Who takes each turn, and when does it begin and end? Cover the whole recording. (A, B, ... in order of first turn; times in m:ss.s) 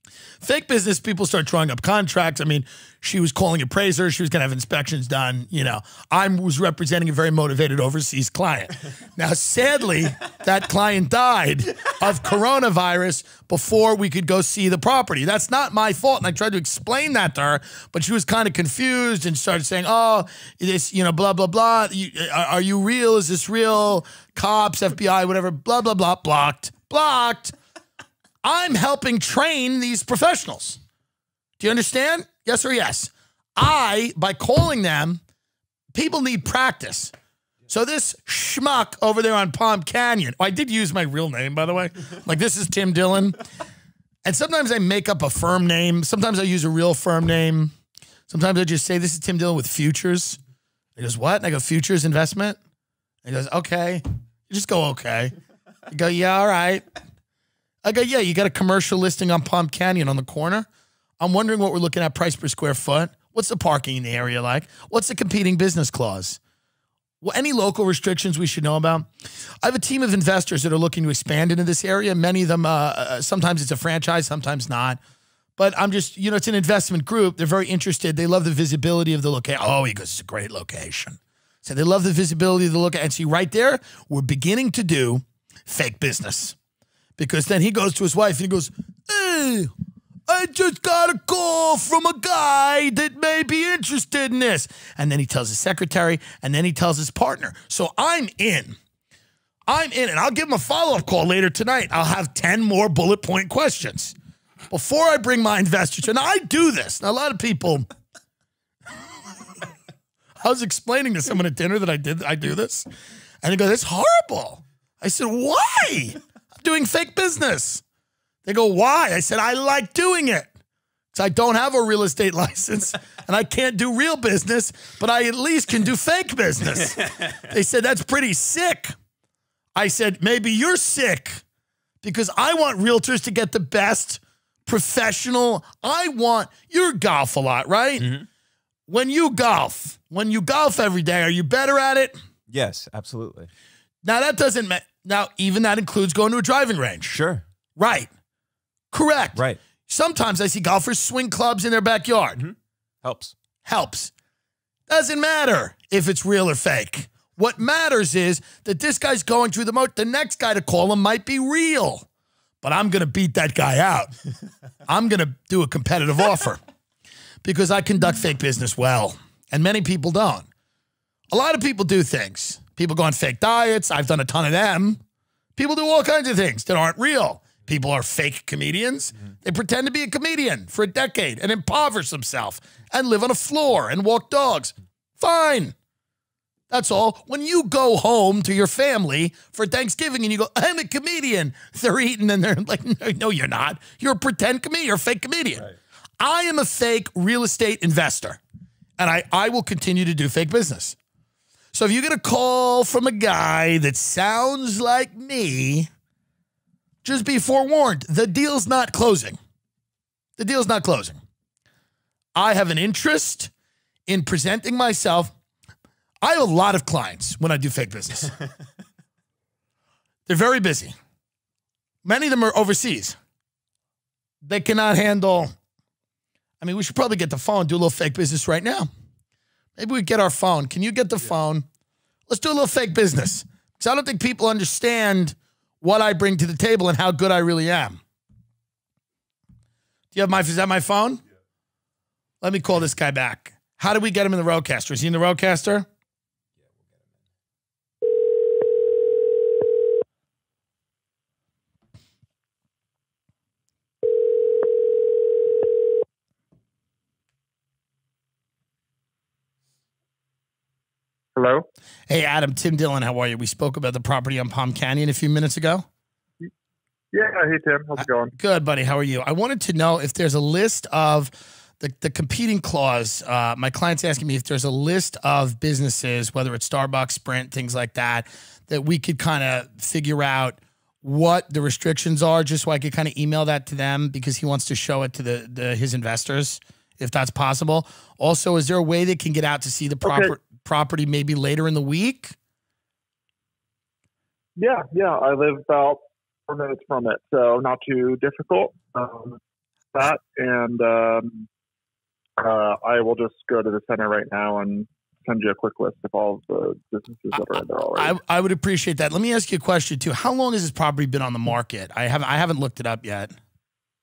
0:00.4-0:27.5 A
0:28.4-0:30.8 A
0:31.6-0:35.2 A
0:35.9-0:37.1 A
0:37.7-0:43.4 A
0:44.2-0:47.7 A
0:48.3-0:50.4 A
0:51.0-0:52.6 A
0:53.2-0:55.3 A
0:55.9-0:56.8 A
0:57.8-1:00.7 A
1:01.2-1:06.4 A
1:07.2-1:09.1 A
1:09.6-1:15.0 A
1:15.6-1:26.6 A
1:27.2-1:29.7 A
1:30.3-1:38.8 A
1:39.7-1:44.1 A
1:44.7-1:47.9 A
1:50.4-1:52.9 A
1:53.4-1:57.8 A
1:58.4-2:00.5 A
2:01.1-2:08.9 A
2:09.8-2:11.4 A
2:12.0-2:18.1 A
2:18.0-2:18.3 B
2:18.9-2:22.2 A
2:22.5-2:23.5 B
2:24.0-2:27.2 A
2:27.1-2:27.4 B
2:27.8-2:28.1 A
2:28.9-2:32.4 A
2:29.4-2:29.6 B
2:32.4-2:33.3 B
2:33.6-2:34.1 A
2:34.9-2:42.1 A
2:42.6-2:44.1 A
2:44.9-2:46.6 A
2:47.4-2:50.5 A
2:51.3-2:55.0 A
2:55.6-3:05.8 A
3:06.7-3:15.7 A
3:16.2-3:18.4 A
3:19.0-3:21.0 A
3:21.7-3:25.9 A
3:27.0-3:29.4 A
3:30.4-3:31.2 A
3:32.4-3:33.5 A
3:34.1-3:35.3 A
3:36.2-3:38.3 A
3:40.3-3:41.0 A
3:42.0-3:43.2 A
3:44.4-3:45.5 A
3:46.6-3:48.9 A
3:49.8-3:51.6 A
3:52.3-3:58.0 A
4:00.1-4:01.2 A
4:02.4-4:05.9 A
4:21.4-4:21.7 C
4:22.1-4:25.9 A
4:27.1-4:28.3 C
4:28.0-4:52.4 A
4:50.0-4:50.3 C
4:54.6-4:59.4 C
4:59.9-5:01.5 C
5:02.4-5:08.2 C
5:07.3-5:13.4 A